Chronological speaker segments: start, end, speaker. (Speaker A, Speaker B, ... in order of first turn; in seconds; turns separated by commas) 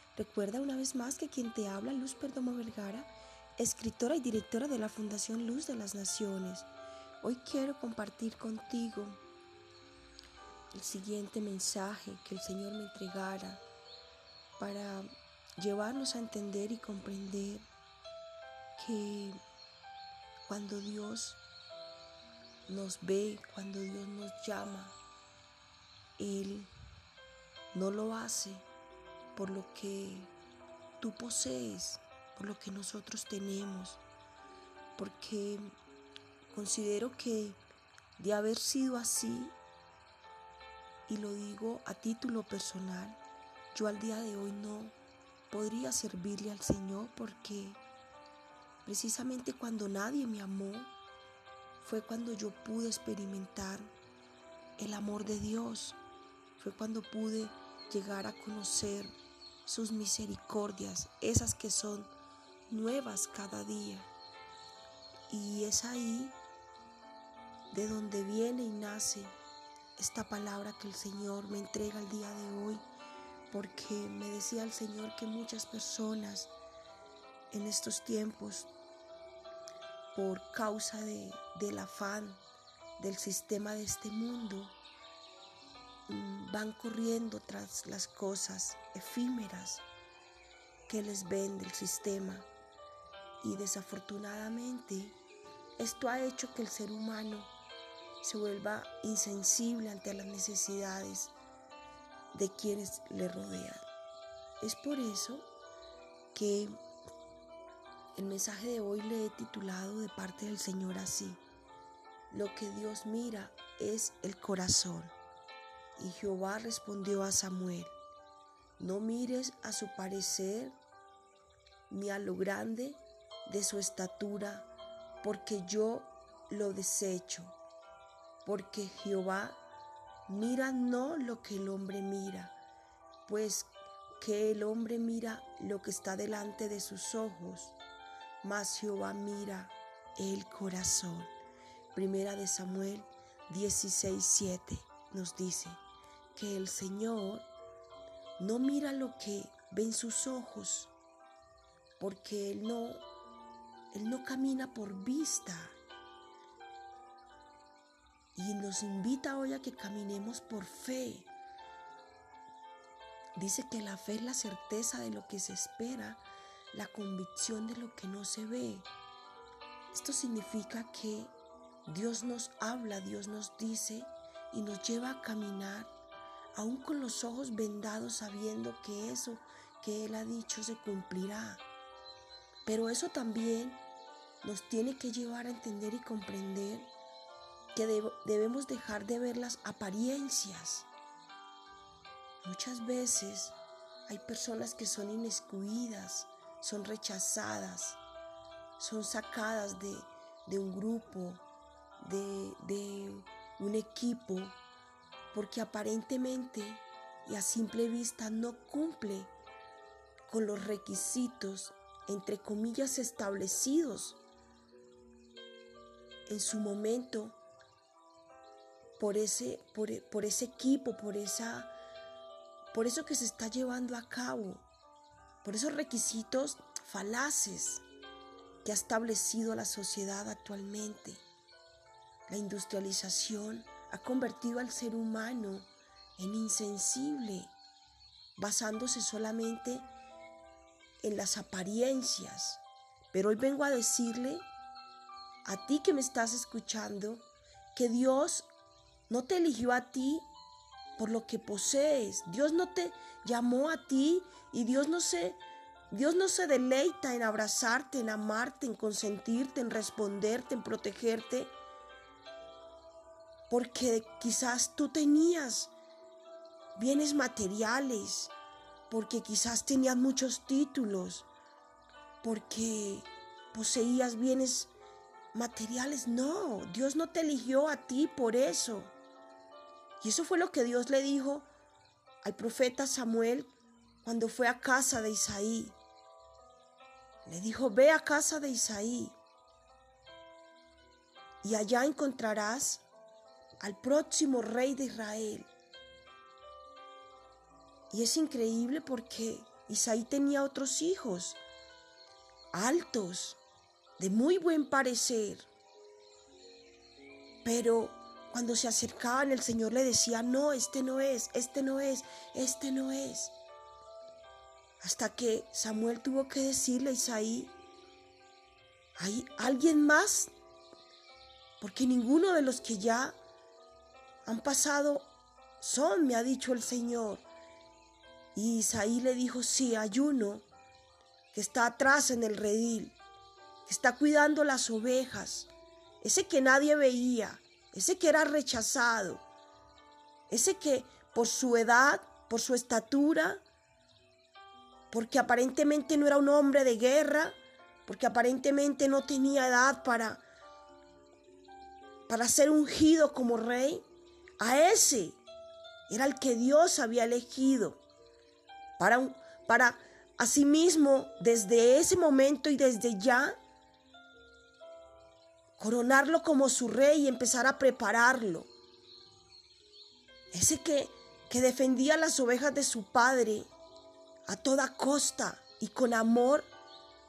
Speaker A: 0.1-6.7, Speaker A: 7.2-9.2, Speaker A: 10.7-13.6, Speaker A: 14.6-15.1, Speaker A: 15.6-17.6, Speaker A: 18.8-19.4, Speaker A: 20.4-21.4, Speaker A: 22.7-25.0, Speaker A: 26.2-26.7, Speaker A: 27.7-28.6, Speaker A: 29.3-30.3, Speaker A: 31.0-34.0, Speaker A: 35.0-35.7, Speaker A: 36.5-37.6, Speaker A: 38.2-39.5, Speaker A: 41.1-43.2, Speaker A: 43.7-44.9, Speaker A: 45.5-47.8, Speaker A: 48.8-50.9, Speaker A: 51.8-53.9, Speaker A: 54.8-56.0, Speaker A: 56.6-59.1, Speaker A: 59.6-62.1, Speaker A: 62.7-64.1, Speaker A: 65.3-66.4, Speaker A: 67.7-69.3, Speaker A: 70.0-72.8, Speaker A: 73.5-76.5, Speaker A: 77.5-78.7, Speaker A: 80.1-82.4, Speaker A: 83.0-84.8, Speaker A: 86.1-89.8, Speaker A: 90.9-92.5, Speaker A: 93.4-95.2, Speaker A: 95.8-97.5, Speaker A: 98.2-101.3, Speaker A: 102.3-103.8, Speaker A: 104.6-105.5, Speaker A: 106.3-106.8, Speaker A: 108.1-111.4, Speaker A: 112.3-115.1, Speaker A: 116.0-117.9, Speaker A: 118.8-120.7, Speaker A: 121.9-124.7, Speaker A: 125.2-127.6, Speaker A: 128.4-129.6, Speaker A: 130.2-132.6, Speaker A: 133.2-137.7, Speaker A: 138.4-141.3, Speaker A: 141.9-145.8, Speaker A: 146.3-147.5, Speaker A: 148.4-150.9, Speaker A: 152.0-153.0, Speaker A: 153.9-155.8, Speaker A: 158.3-161.3, Speaker A: 163.3-168.9, Speaker A: 169.9-171.3, Speaker A: 171.8-175.9, Speaker A: 176.6-181.6, Speaker A: 182.7-183.8, Speaker A: 184.4-186.9, Speaker A: 187.7-190.9, Speaker A: 192.4-193.6, Speaker A: 194.1-198.0, Speaker A: 198.8-201.4, Speaker A: 202.0-204.6, Speaker A: 205.3-209.3, Speaker A: 210.3-214.2, Speaker A: 216.3-217.4, Speaker A: 219.0-221.7, Speaker A: 222.7-224.6, Speaker A: 225.4-227.8, Speaker A: 228.6-231.2, Speaker A: 232.3-237.5, Speaker A: 238.3-239.9, Speaker A: 241.0-242.6, Speaker A: 243.1-244.4, Speaker A: 245.4-248.5, Speaker A: 249.1-250.2, Speaker A: 251.0-261.5, Speaker A: 263.5-265.7, Speaker A: 266.8-268.3, Speaker A: 268.9-271.3, Speaker A: 272.2-274.7, Speaker A: 275.3-278.9, Speaker A: 280.0-281.5, Speaker A: 282.2-285.8, Speaker A: 287.2-289.2, Speaker A: 291.4-292.8, Speaker A: 293.6-295.5, Speaker A: 297.9-301.4, Speaker A: 302.5-303.4, Speaker A: 304.0-305.5, Speaker A: 307.4-313.3, Speaker A: 314.8-317.5, Speaker A: 319.0-320.3, Speaker A: 321.6-323.1, Speaker A: 324.2-325.1, Speaker A: 325.6-327.2, Speaker A: 328.3-330.4, Speaker A: 331.3-333.0, Speaker A: 333.6-335.5, Speaker A: 336.0-339.2, Speaker A: 340.3-343.4, Speaker A: 344.9-350.2, Speaker A: 352.1-353.8, Speaker A: 354.4-355.2, Speaker A: 355.9-357.8, Speaker A: 358.8-363.4, Speaker A: 365.6-368.5, Speaker A: 370.3-373.5, Speaker A: 374.3-376.5